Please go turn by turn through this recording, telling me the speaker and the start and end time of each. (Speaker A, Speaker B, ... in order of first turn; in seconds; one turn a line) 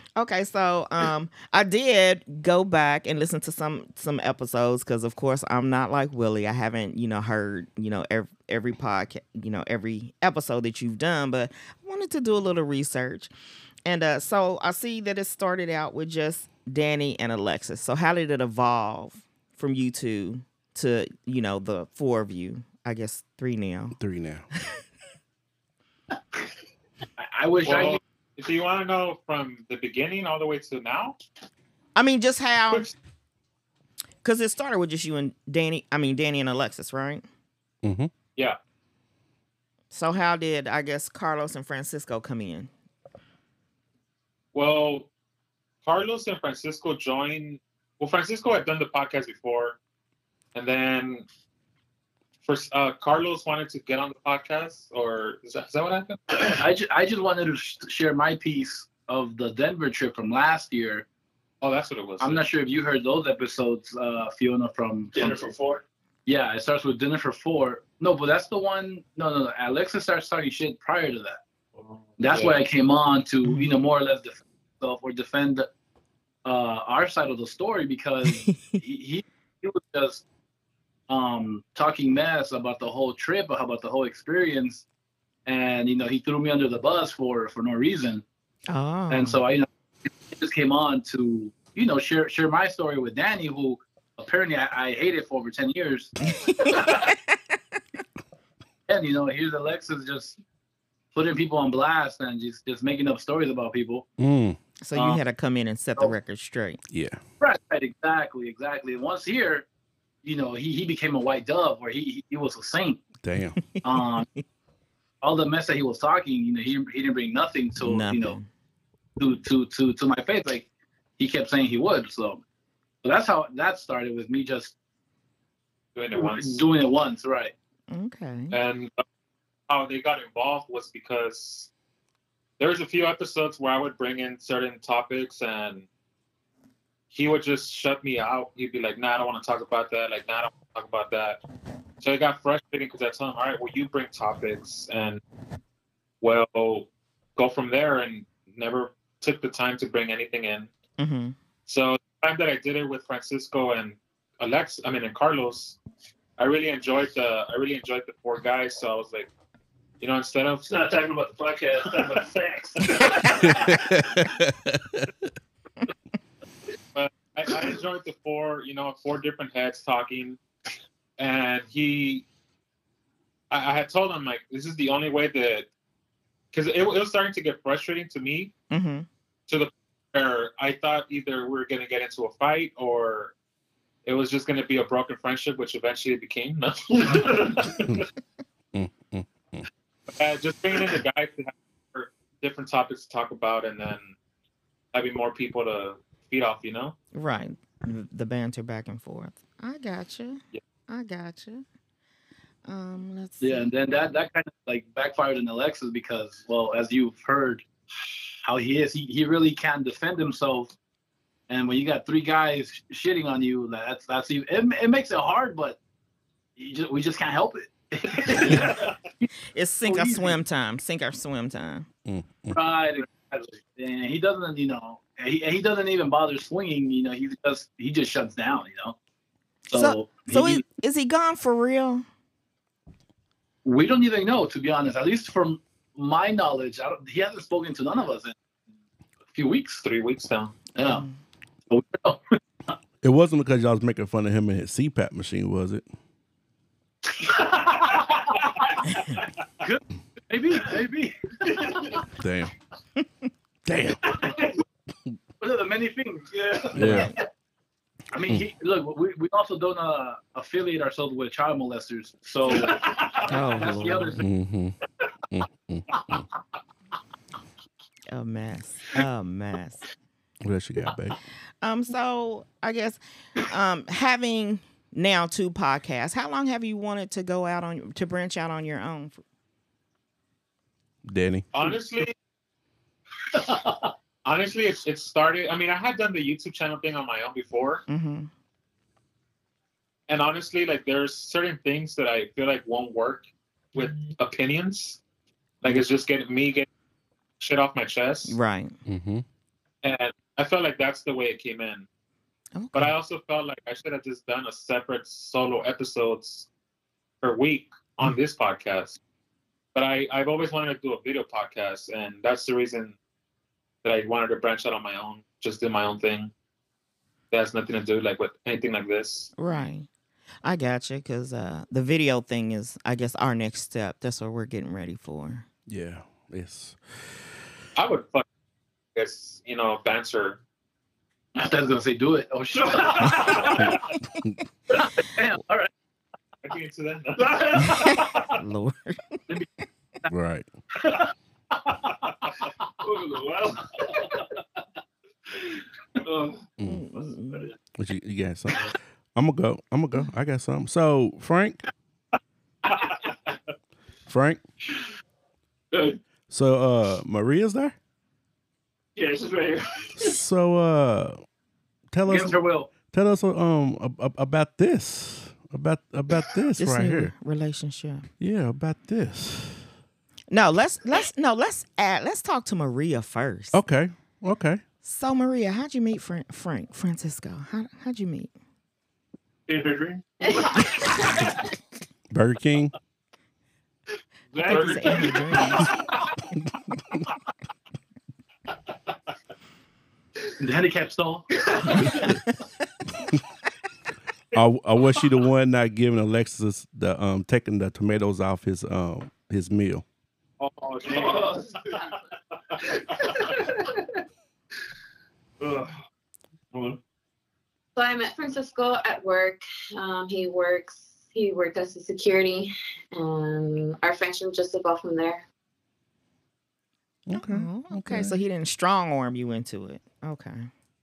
Speaker A: 0.2-13.3
Speaker A: 13.8-24.0
Speaker B: 24.0-24.5
Speaker C: 27.2-28.0
Speaker D: 27.6-31.2
Speaker A: 31.9-32.9
Speaker A: 34.2-37.3
Speaker B: 37.8-38.1
Speaker A: 39.9-42.7
Speaker D: 44.5-45.1
Speaker D: 45.8-49.8
Speaker D: 50.5-51.2
Speaker D: 52.4-56.2
Speaker C: 56.5-61.1
Speaker D: 61.6-62.5
Speaker C: 62.2-65.4
Speaker E: 65.2-65.8
Speaker C: 66.3-71.4
Speaker C: 72.2-75.7
Speaker E: 72.3-72.6
Speaker A: 73.4-73.8
Speaker C: 76.5-80.2
Speaker A: 78.3-78.8
Speaker C: 81.1-84.8
Speaker C: 85.5-88.2
Speaker A: 88.7-89.5
Speaker C: 89.1-96.1
Speaker A: 96.2-97.4
Speaker C: 98.9-100.4
Speaker C: 101.1-104.1
Speaker B: 104.2-104.6
Speaker A: 104.8-106.8
Speaker C: 104.9-105.2
Speaker B: 106.9-107.2
Speaker C: 107.4-109.7
Speaker C: 110.2-113.0
Speaker B: 113.2-113.6
Speaker A: 113.6-114.4
Speaker C: 113.8-114.3
Speaker C: 115.2-118.4
Speaker A: 117.8-118.5
Speaker C: 119.2-122.4
Speaker C: 123.0-124.8
Speaker D: 126.0-126.6
Speaker C: 126.1-127.5
Speaker A: 127.9-128.6
Speaker D: 128.5-129.0
Speaker D: 129.7-131.7
Speaker D: 132.6-135.9
Speaker D: 137.1-141.4
Speaker D: 142.0-145.2
Speaker D: 146.2-150.7
Speaker A: 151.0-151.4
Speaker D: 151.7-155.8
Speaker D: 156.4-159.3
Speaker D: 160.0-160.7
Speaker E: 160.7-163.8
Speaker B: 163.4-165.1
Speaker D: 166.9-170.4
Speaker D: 171.2-172.3
Speaker D: 173.5-175.7
Speaker D: 176.5-178.5
Speaker A: 178.7-179.1
Speaker D: 179.5-183.3
Speaker D: 184.1-187.5
Speaker E: 187.0-187.9
Speaker B: 188.7-189.7
Speaker D: 190.1-194.2
Speaker D: 194.9-196.9
Speaker A: 197.1-201.7
Speaker A: 202.7-203.7
Speaker C: 203.4-207.7
Speaker C: 208.4-210.8
Speaker C: 211.5-215.8
Speaker C: 216.6-219.3
Speaker A: 219.5-221.9
Speaker C: 219.8-220.4
Speaker B: 222.1-222.6
Speaker C: 222.5-229.0
Speaker C: 229.7-230.7
Speaker A: 229.7-232.1
Speaker C: 233.6-238.4
Speaker C: 239.3-239.8
Speaker D: 239.8-240.6
Speaker C: 240.8-241.1
Speaker A: 240.8-241.1
Speaker C: 241.7-242.3
Speaker B: 243.0-245.8
Speaker E: 247.3-248.4
Speaker C: 249.6-252.0
Speaker E: 251.6-252.0
Speaker B: 252.2-252.5
Speaker B: 253.7-254.2
Speaker E: 254.2-254.5
Speaker C: 255.4-257.1
Speaker E: 256.3-256.8
Speaker B: 256.8-257.1
Speaker A: 256.8-257.2
Speaker C: 258.1-264.2
Speaker E: 262.4-263.6
Speaker A: 263.3-264.2
Speaker B: 264.2-264.8
Speaker B: 265.3-266.3
Speaker A: 268.1-269.9
Speaker B: 270.4-271.2
Speaker A: 271.6-279.2
Speaker B: 281.0-281.5
Speaker D: 281.5-282.1
Speaker D: 284.2-287.9
Speaker A: 287.9-288.3
Speaker D: 290.1-295.0
Speaker D: 295.6-296.7
Speaker D: 297.4-298.4
Speaker A: 298.3-298.8
Speaker B: 298.9-299.2
Speaker D: 299.8-301.9
Speaker A: 302.5-303.0
Speaker D: 302.7-306.5
Speaker D: 307.2-309.0
Speaker D: 309.8-313.0
Speaker D: 313.8-316.3
Speaker D: 317.3-319.3
Speaker A: 319.4-319.9
Speaker A: 320.4-325.5
Speaker B: 325.7-327.3
Speaker D: 327.8-328.3
Speaker D: 328.9-330.4
Speaker C: 331.4-333.8
Speaker E: 332.6-333.8
Speaker C: 334.7-335.7
Speaker D: 336.4-337.7
Speaker E: 337.2-338.4
Speaker A: 337.7-339.2
Speaker B: 340.1-340.5
Speaker E: 342.8-344.3
Speaker E: 346.0-346.4
Speaker B: 346.6-346.9
Speaker A: 346.6-347.5
Speaker B: 347.8-351.6
Speaker E: 352.7-353.1
Speaker B: 354.1-354.4
Speaker E: 355.7-356.0
Speaker B: 356.3-357.8
Speaker E: 359.0-360.2
Speaker B: 360.0-361.2
Speaker B: 361.9-367.1
Speaker C: 362.1-362.7
Speaker A: 366.6-368.1
Speaker B: 368.2-369.7
Speaker A: 370.3-373.6
Speaker B: 373.5-374.6
Speaker A: 374.8-378.3
Speaker E: 379.5-381.1
Speaker F: 380.2-381.2
Speaker B: 382.1-382.7
Speaker E: 384.3-385.9
Speaker A: 384.4-385.7
Speaker D: 384.5-385.1
Speaker C: 390.4-391.3
Speaker E: 391.4-392.1
Speaker B: 394.3-399.9
Speaker C: 400.8-401.3
Speaker E: 400.8-401.8
Speaker E: 402.6-403.6
Speaker E: 405.4-405.8
Speaker E: 406.5-406.8
Speaker F: 407.8-415.2
Speaker B: 417.1-418.2
Speaker A: 417.1-420.5